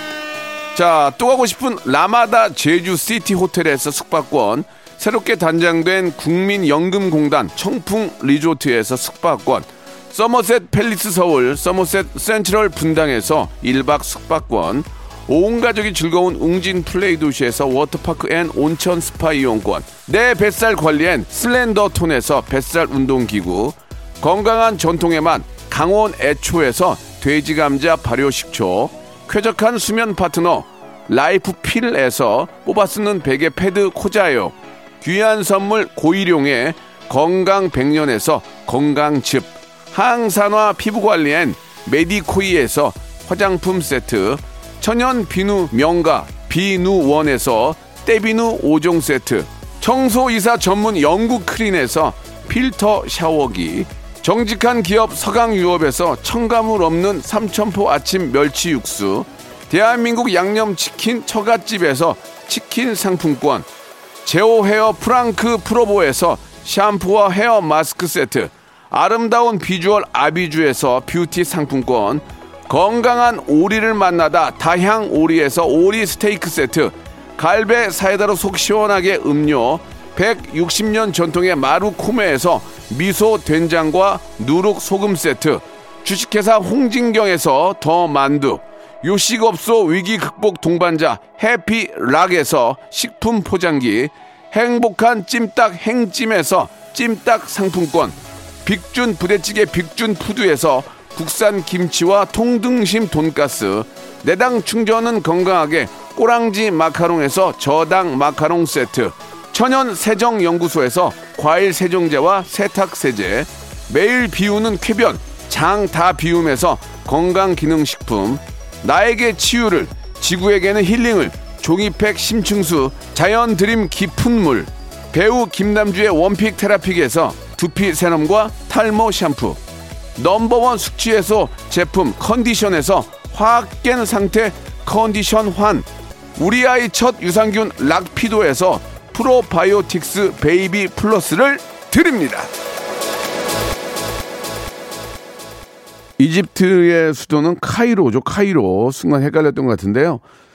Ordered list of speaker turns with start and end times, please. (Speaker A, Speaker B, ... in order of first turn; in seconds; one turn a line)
Speaker A: 0.7-63.7
Speaker A: 64.2-129.6
Speaker A: 130.2-142.5
Speaker A: 146.2-150.2